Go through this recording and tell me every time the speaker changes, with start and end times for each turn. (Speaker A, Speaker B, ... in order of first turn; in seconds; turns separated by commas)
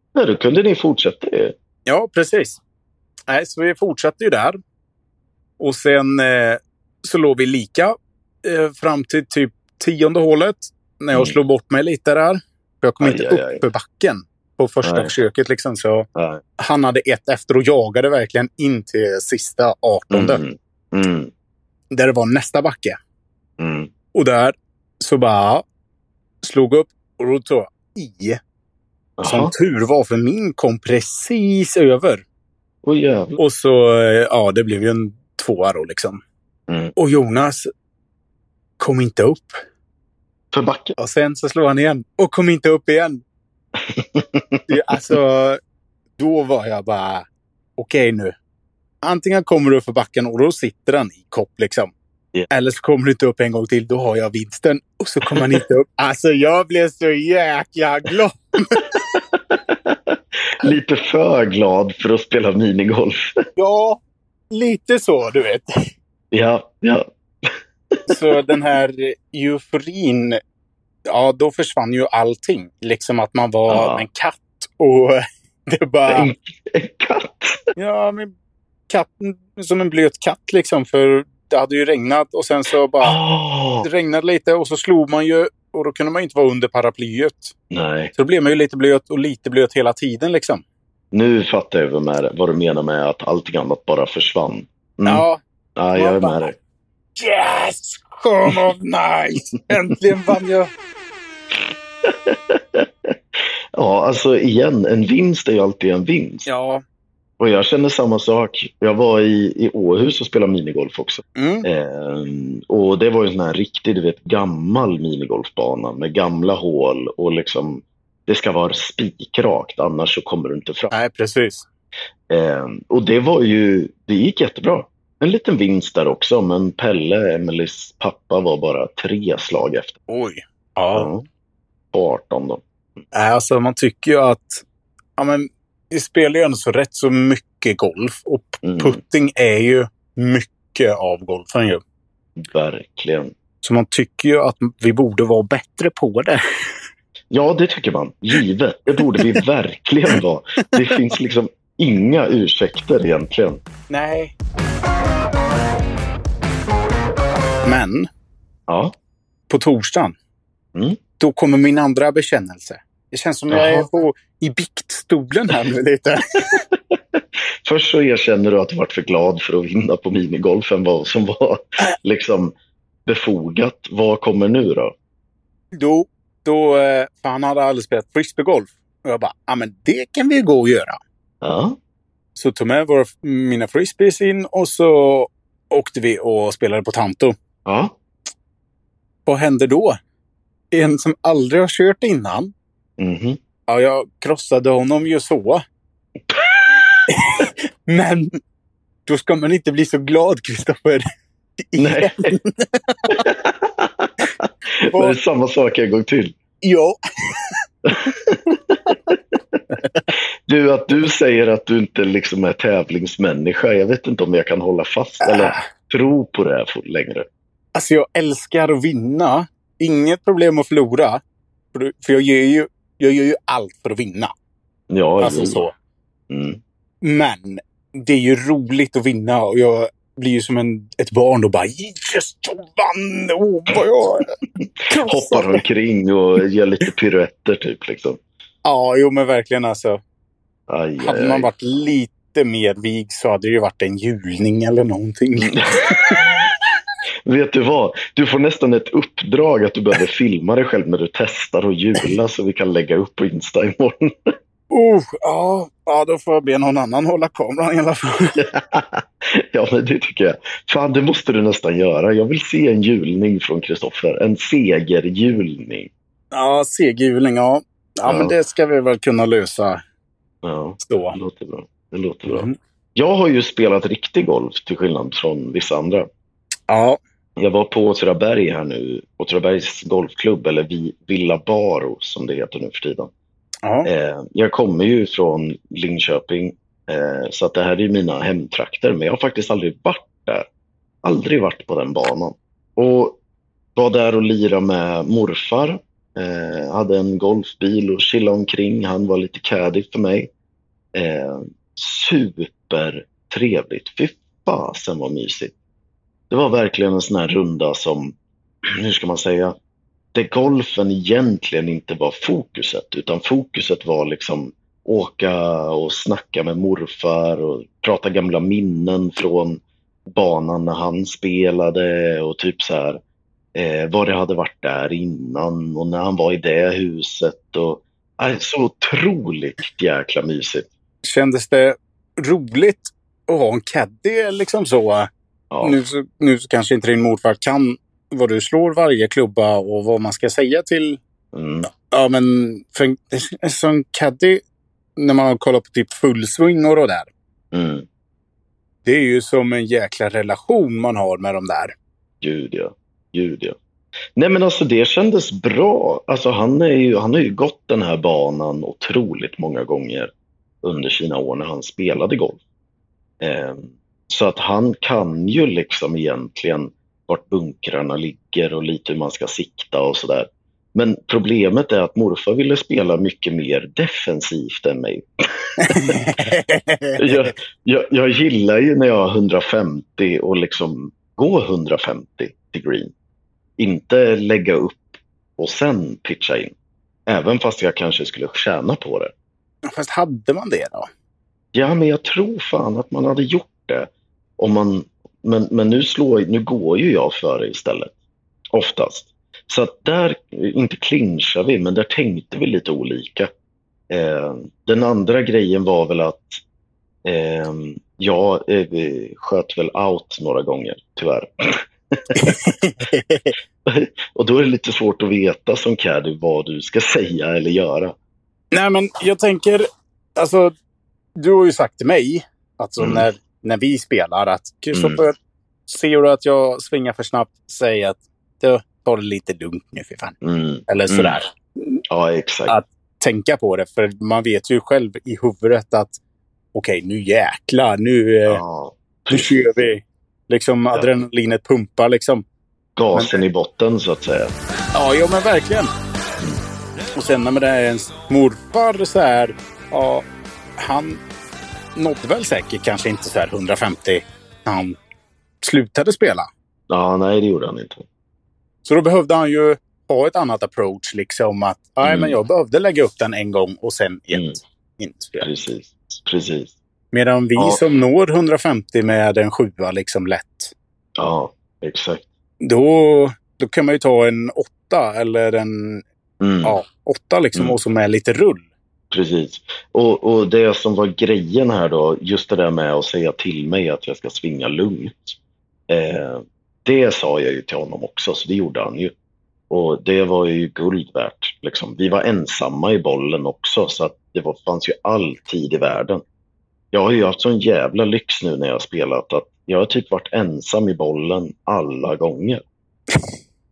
Speaker A: 0.1-1.5, Speaker B: 1.9-2.6, Speaker B: 3.3-4.6, Speaker B: 5.6-16.1, Speaker A: 13.0-13.6, Speaker A: 14.8-15.1, Speaker A: 16.1-16.4, Speaker B: 16.6-20.4, Speaker A: 20.1-21.3, Speaker B: 21.9-23.0, Speaker A: 23.6-23.9, Speaker B: 24.1-25.6, Speaker B: 26.4-28.4, Speaker A: 29.2-29.5, Speaker B: 29.2-32.2, Speaker A: 32.8-33.4, Speaker B: 33.4-36.2, Speaker A: 36.7-37.0, Speaker B: 37.0-37.7, Speaker B: 38.8-39.6, Speaker A: 40.5-41.0, Speaker B: 41.0-43.2, Speaker A: 43.8-45.1, Speaker B: 44.7-45.6, Speaker B: 46.2-47.2, Speaker B: 47.8-48.4, Speaker B: 49.0-51.9, Speaker B: 52.5-58.9, Speaker A: 55.2-55.6, Speaker A: 59.0-63.3, Speaker B: 63.6-64.0, Speaker B: 64.5-65.7, Speaker A: 66.3-67.1, Speaker B: 68.1-70.4, Speaker B: 71.1-76.3, Speaker A: 73.7-74.1, Speaker A: 76.1-77.7, Speaker B: 77.8-78.3, Speaker B: 78.9-83.2, Speaker A: 83.0-83.9, Speaker B: 83.8-87.5, Speaker A: 87.7-88.1, Speaker B: 88.1-90.6, Speaker A: 91.1-95.2, Speaker B: 95.1-95.4, Speaker A: 95.8-96.5, Speaker B: 96.0-96.5, Speaker B: 97.2-100.7, Speaker A: 102.0-102.9, Speaker A: 103.8-106.5, Speaker B: 106.5-106.8, Speaker A: 107.4-120.9, Speaker B: 111.4-111.7, Speaker B: 120.9-121.7, Speaker A: 122.3-130.0, Speaker B: 130.1-131.1, Speaker A: 130.9-131.2, Speaker A: 131.9-132.6, Speaker B: 133.1-134.6, Speaker B: 135.2-141.8, Speaker A: 138.6-139.0, Speaker A: 142.4-143.3, Speaker B: 143.6-146.4, Speaker A: 147.3-153.6, Speaker B: 153.9-154.4, Speaker B: 157.6-158.1, Speaker A: 158.7-158.9, Speaker B: 159.5-160.1, Speaker B: 161.2-166.6, Speaker A: 163.5-163.9, Speaker A: 166.7-172.6, Speaker A: 173.1-174.9, Speaker B: 175.7-181.0, Speaker A: 181.4-181.8, Speaker B: 182.4-187.3, Speaker A: 187.7-187.9, Speaker B: 189.2-190.0, Speaker B: 190.7-192.5, Speaker A: 193.0-193.4, Speaker B: 193.7-195.6, Speaker A: 196.3-197.0, Speaker B: 197.1-198.3, Speaker B: 199.1-201.0, Speaker B: 201.7-203.2, Speaker A: 201.8-202.4, Speaker A: 203.1-206.3, Speaker B: 204.9-205.2, Speaker B: 206.6-207.6, Speaker A: 207.9-209.6, Speaker B: 209.7-210.1, Speaker A: 210.5-217.2, Speaker B: 215.2-215.6, Speaker B: 217.8-221.2, Speaker B: 221.7-224.3, Speaker A: 224.9-225.6, Speaker B: 225.2-225.7, Speaker A: 226.3-226.6, Speaker B: 227.0-234.3, Speaker A: 234.6-238.2, Speaker B: 234.9-235.6, Speaker B: 238.6-240.0, Speaker A: 240.7-241.5, Speaker B: 241.0-246.3, Speaker A: 245.4-246.4, Speaker A: 247.2-254.1, Speaker B: 254.7-258.4, Speaker A: 258.4-265.9, Speaker B: 266.3-269.8, Speaker A: 268.1-268.4, Speaker A: 270.4-276.1, Speaker B: 270.8-271.2, Speaker B: 272.3-272.6, Speaker B: 276.7-277.0, Speaker A: 277.4-283.1, Speaker B: 283.6-283.9, Speaker A: 283.8-290.5, Speaker A: 291.0-293.2, Speaker A: 293.8-300.3, Speaker A: 300.9-305.5, Speaker A: 306.3-308.1, Speaker A: 308.8-309.6, Speaker A: 310.1-323.0, Speaker A: 323.6-330.7, Speaker B: 331.0-335.1, Speaker A: 335.5-335.8, Speaker B: 335.6-341.0, Speaker A: 341.3-341.7, Speaker B: 341.7-344.4, Speaker B: 344.9-347.1, Speaker A: 347.5-347.9, Speaker B: 348.9-351.8, Speaker A: 352.2-353.6, Speaker A: 354.1-360.1, Speaker A: 360.6-362.4, Speaker A: 363.2-376.0, Speaker B: 375.6-377.3, Speaker A: 377.0-382.9, Speaker A: 383.6-386.5, Speaker A: 387.1-389.1, Speaker B: 389.7-390.9, Speaker A: 391.5-397.9, Speaker A: 398.5-403.3, Speaker A: 403.9-406.4, Speaker A: 407.1-412.4, Speaker B: 412.1-413.4, Speaker A: 413.6-417.9, Speaker B: 418.5-419.6, Speaker B: 420.2-420.5, Speaker B: 421.2-425.1, Speaker A: 422.8-423.1, Speaker A: 424.7-425.0, Speaker B: 425.7-430.1, Speaker A: 430.2-431.2, Speaker B: 430.7-431.6, Speaker A: 431.9-432.6, Speaker B: 432.5-436.0, Speaker B: 436.5-438.4, Speaker A: 438.3-439.6, Speaker B: 439.1-442.2, Speaker A: 442.8-444.3, Speaker B: 444.7-445.7, Speaker B: 446.9-450.1, Speaker B: 450.6-451.0, Speaker B: 451.8-454.8, Speaker B: 455.4-456.3, Speaker A: 456.7-457.9, Speaker B: 458.6-465.3, Speaker A: 461.8-462.2, Speaker A: 464.1-464.4, Speaker A: 465.2-466.6, Speaker B: 466.9-470.5, Speaker A: 467.4-467.6, Speaker A: 471.0-472.1, Speaker B: 472.4-475.8, Speaker A: 476.2-476.6, Speaker B: 476.4-478.4, Speaker A: 478.9-485.2, Speaker A: 485.7-488.9, Speaker A: 489.5-496.0, Speaker A: 496.7-502.4